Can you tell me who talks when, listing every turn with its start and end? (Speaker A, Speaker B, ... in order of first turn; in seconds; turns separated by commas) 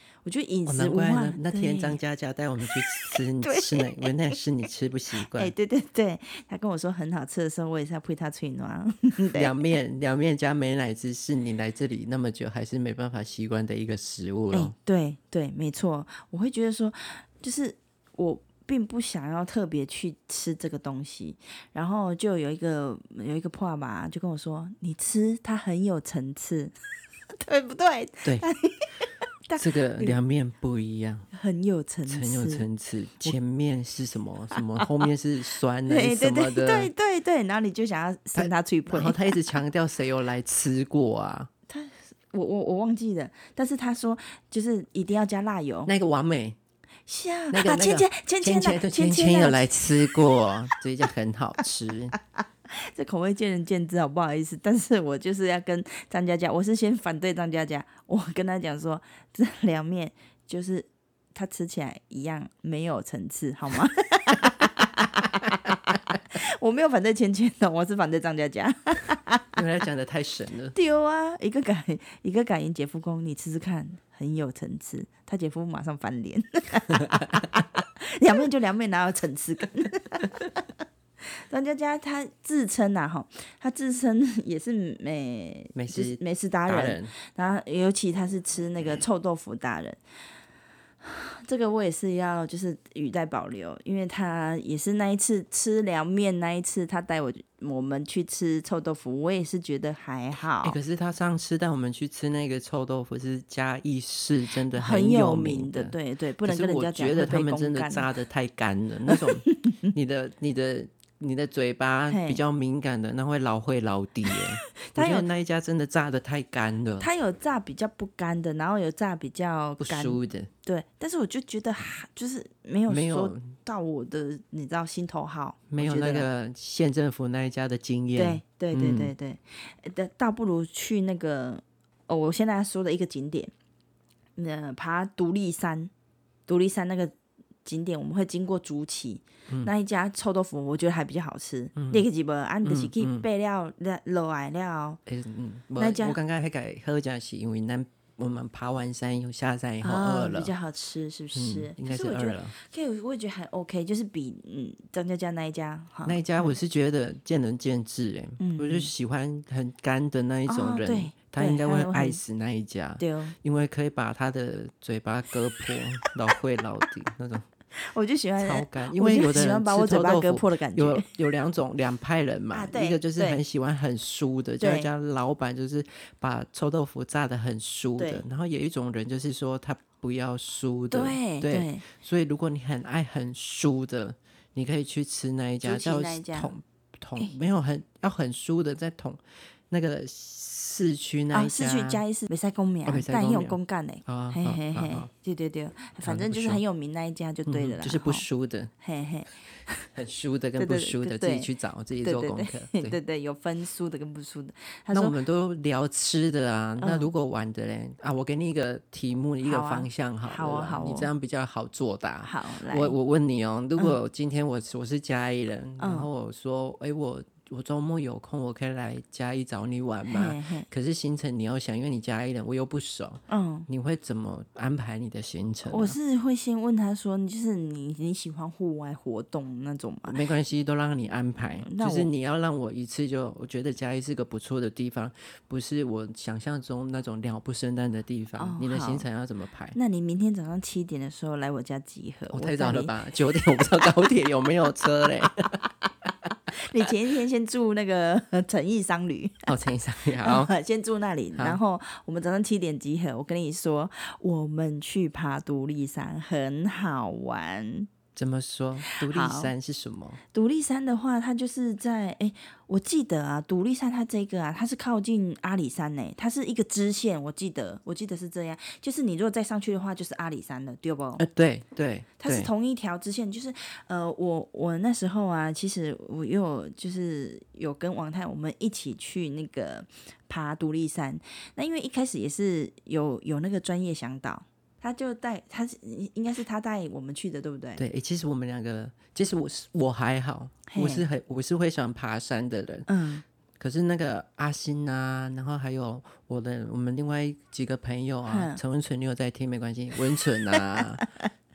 Speaker A: 0.2-2.0, Speaker B: 0.7-5.5, Speaker A: 2.6-4.4, Speaker A: 5.2-9.5, Speaker B: 9.3-14.7, Speaker A: 14.5-26.7, Speaker A: 27.3-30.2, Speaker B: 29.6-31.3, Speaker A: 31.3-32.6, Speaker B: 32.1-36.9, Speaker A: 34.5-35.0, Speaker A: 35.9-39.4, Speaker B: 38.3-41.5, Speaker A: 41.7-45.9, Speaker B: 45.9-46.6, Speaker A: 47.1-50.2, Speaker B: 47.5-52.1, Speaker A: 52.7-69.6, Speaker B: 69.5-70.7, Speaker A: 70.7-80.7, Speaker A: 81.2-90.0, Speaker B: 85.7-87.1, Speaker A: 91.0-100.8, Speaker B: 100.6-105.9, Speaker A: 104.7-108.0, Speaker B: 106.4-117.1, Speaker A: 109.1-109.8, Speaker A: 112.1-112.4, Speaker A: 114.3-115.3, Speaker A: 117.0-126.3, Speaker B: 119.8-120.5, Speaker B: 122.9-123.5, Speaker B: 125.7-129.1, Speaker A: 128.2-133.5, Speaker A: 134.3-135.9, Speaker A: 136.5-137.1, Speaker A: 137.6-145.0, Speaker B: 141.8-142.0, Speaker B: 142.6-143.2, Speaker B: 145.1-150.5, Speaker A: 145.8-146.2, Speaker A: 149.8-156.6, Speaker B: 151.3-152.5, Speaker B: 156.0-167.4, Speaker A: 158.4-158.9, Speaker A: 160.5-162.2, Speaker A: 163.0-163.3, Speaker A: 167.8-171.1, Speaker B: 168.4-189.2, Speaker A: 172.5-173.4, Speaker A: 174.6-174.9, Speaker A: 178.0-178.2, Speaker A: 180.9-181.8, Speaker A: 185.6-186.5, Speaker B: 189.7-192.0, Speaker A: 191.3-198.2, Speaker B: 192.8-195.1, Speaker B: 196.0-196.6, Speaker B: 197.4-198.7, Speaker A: 198.8-199.9, Speaker B: 199.9-203.0, Speaker A: 200.6-201.5, Speaker A: 202.0-205.2, Speaker B: 204.9-226.0, Speaker A: 206.8-207.1, Speaker A: 209.4-211.1, Speaker A: 212.2-212.9, Speaker A: 215.8-216.1, Speaker A: 220.1-220.7, Speaker A: 223.3-223.7, Speaker A: 225.7-230.2, Speaker B: 230.1-239.8, Speaker A: 231.6-232.1, Speaker A: 238.4-239.1, Speaker A: 239.7-243.9, Speaker B: 242.3-245.6, Speaker A: 246.5-249.5, Speaker B: 249.4-250.5, Speaker A: 250.2-257.9, Speaker B: 258.1-260.2, Speaker A: 258.9-259.5, Speaker A: 260.3-271.2, Speaker B: 271.2-272.5, Speaker A: 272.2-287.8, Speaker B: 287.8-292.9, Speaker A: 290.7-291.1, Speaker A: 292.9-293.2, Speaker B: 293.6-301.1, Speaker A: 298.3-298.6, Speaker A: 300.5-301.1